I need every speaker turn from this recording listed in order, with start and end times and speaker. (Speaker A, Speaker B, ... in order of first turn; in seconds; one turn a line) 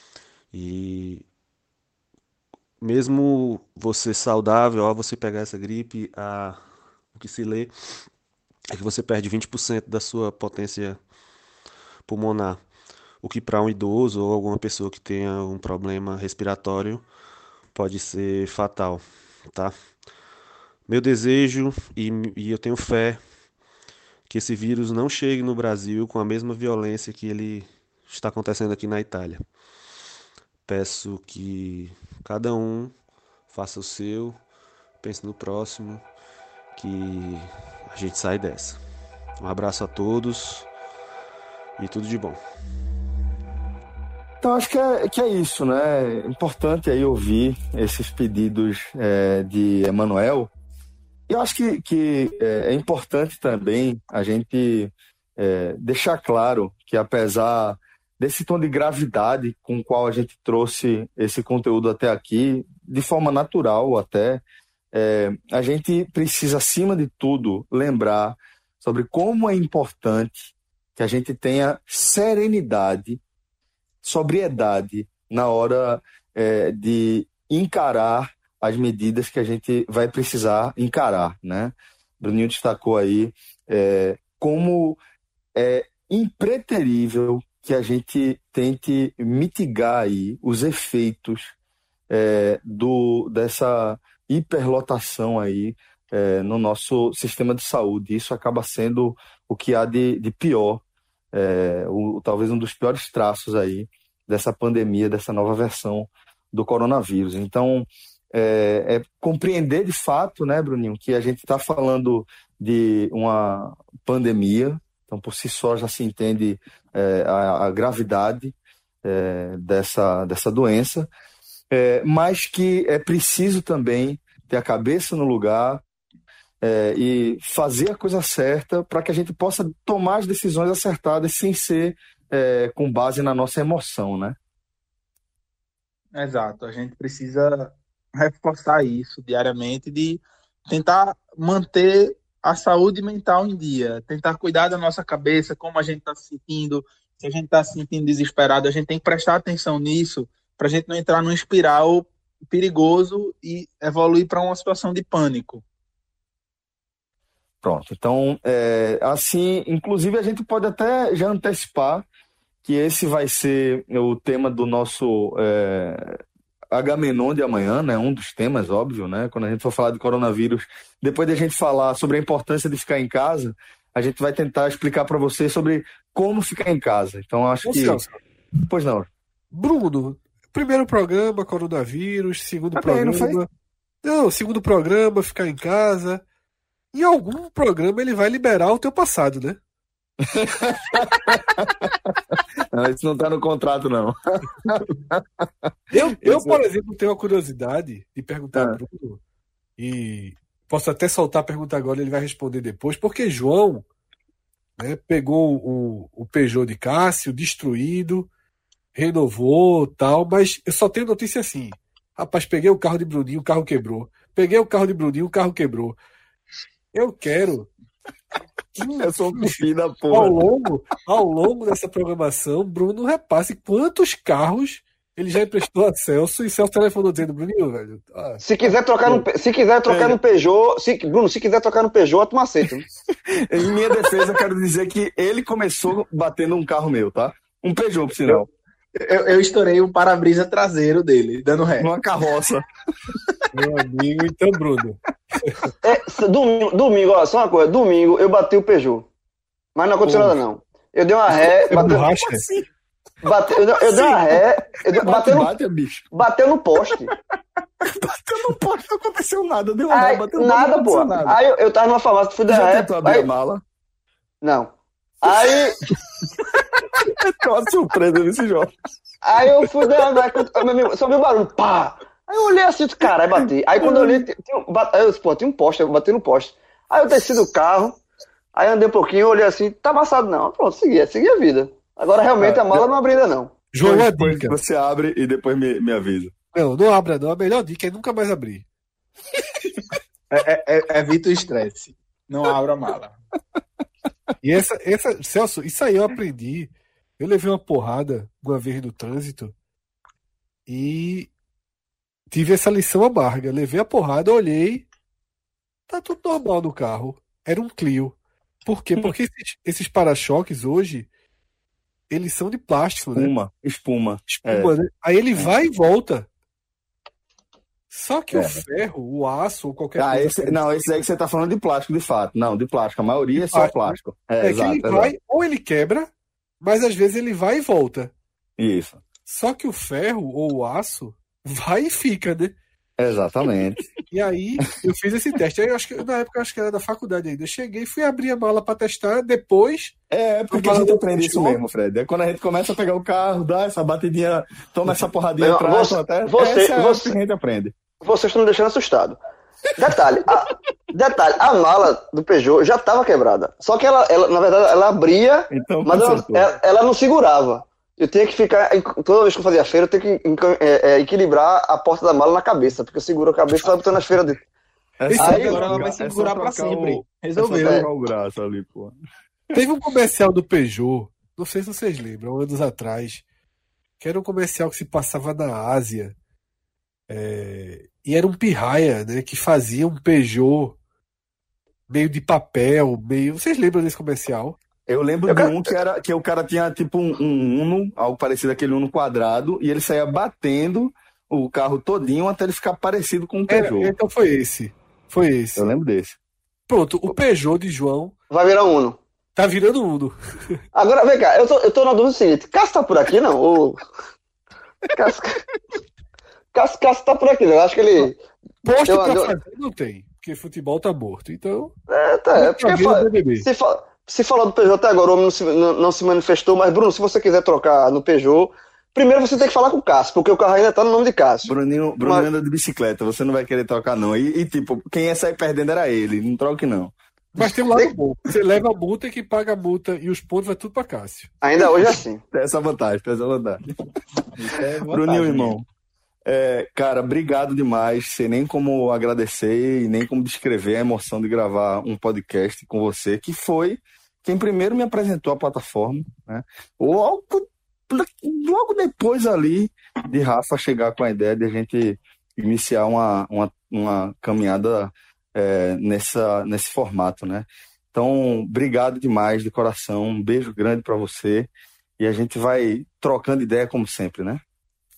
Speaker A: 0.5-1.3
Speaker A: 2.8-6.6
Speaker A: 7.1-7.7
Speaker A: 8.7-11.0
Speaker A: 12.1-12.6
Speaker A: 13.2-17.1
Speaker A: 17.7-19.7
Speaker A: 20.9-23.2
Speaker A: 24.3-29.4
Speaker A: 30.7-33.0
Speaker A: 33.5-34.4
Speaker A: 35.0-36.0
Speaker A: 36.7-38.8
Speaker A: 39.4-40.7
Speaker A: 41.8-42.4
Speaker B: 44.4-50.5
Speaker B: 51.3-73.2
Speaker B: 74.0-85.0
Speaker B: 85.5-91.5
Speaker B: 92.1-121.1
Speaker B: 121.7-125.8
Speaker B: 126.6-134.4
Speaker C: 136.2-155.6
Speaker B: 157.6-162.1
Speaker B: 162.7-166.2
Speaker B: 166.7-178.0
Speaker D: 177.6-178.2
Speaker B: 178.7-179.1
Speaker D: 179.5-183.5
Speaker B: 182.7-183.4
Speaker D: 184.0-186.2
Speaker D: 186.9-189.6
Speaker B: 190.3-195.4
Speaker D: 195.9-199.2
Speaker B: 196.2-196.6
Speaker D: 199.8-203.8
Speaker D: 204.8-208.3
Speaker D: 208.9-216.0
Speaker D: 216.9-217.7
Speaker D: 218.8-219.6
Speaker B: 219.0-220.4
Speaker D: 220.1-228.4
Speaker E: 228.4-232.9
Speaker B: 229.9-230.2
Speaker B: 233.4-238.5
Speaker C: 238.9-241.9
Speaker B: 241.8-242.6
Speaker D: 243.5-245.7
Speaker E: 245.8-249.1
Speaker E: 249.8-252.1
Speaker B: 250.0-250.4
Speaker B: 251.3-252.7
Speaker D: 251.7-252.4
Speaker E: 253.2-255.5
Speaker B: 253.7-256.1
Speaker E: 256.1-257.1
Speaker B: 257.8-261.4
Speaker E: 259.9-263.3
Speaker B: 262.5-263.6
Speaker E: 264.4-265.8
Speaker B: 265.2-265.6
Speaker B: 266.6-268.7
Speaker E: 269.2-278.0
Speaker B: 273.8-274.2
Speaker E: 278.6-283.5
Speaker B: 282.4-282.9
Speaker D: 283.7-284.6
Speaker B: 283.8-286.3
Speaker D: 286.6-288.6
Speaker C: 290.3-293.1
Speaker D: 294.4-299.5
Speaker D: 300.7-301.3
Speaker D: 302.3-304.9
Speaker D: 305.9-311.1
Speaker D: 312.1-313.3
Speaker B: 313.1-314.7
Speaker D: 314.3-316.3
Speaker D: 317.9-321.0
Speaker B: 318.3-318.6
Speaker B: 319.9-325.1
Speaker D: 323.4-326.1
Speaker D: 326.6-328.1
Speaker B: 328.6-329.0
Speaker D: 329.3-332.5
Speaker B: 333.0-333.8
Speaker D: 334.1-339.9
Speaker B: 340.1-347.7
Speaker D: 340.5-341.6
Speaker E: 345.4-347.1
Speaker E: 348.0-349.2
Speaker E: 349.8-364.4
Speaker B: 355.5-356.5
Speaker B: 365.0-368.9
Speaker D: 365.1-365.9
Speaker E: 365.2-365.5
Speaker C: 365.2-367.9
Speaker E: 367.5-367.8
Speaker D: 369.5-373.2
Speaker D: 374.0-376.1
Speaker D: 377.1-380.8
Speaker D: 381.9-384.6
Speaker B: 384.9-393.9
Speaker E: 385.3-385.6
Speaker D: 393.5-395.7
Speaker B: 395.6-396.2
Speaker D: 396.7-398.1
Speaker E: 398.3-399.0
Speaker D: 399.4-400.1
Speaker E: 400.7-403.8
Speaker E: 404.9-405.4
Speaker E: 406.5-408.1
Speaker D: 408.6-411.7
Speaker E: 408.9-409.3
Speaker E: 411.9-422.3
Speaker D: 412.4-413.5
Speaker B: 421.4-426.9
Speaker D: 427.4-431.3
Speaker E: 431.4-432.2
Speaker B: 432.3-433.6
Speaker B: 434.4-435.6
Speaker D: 434.8-435.5
Speaker B: 436.3-464.4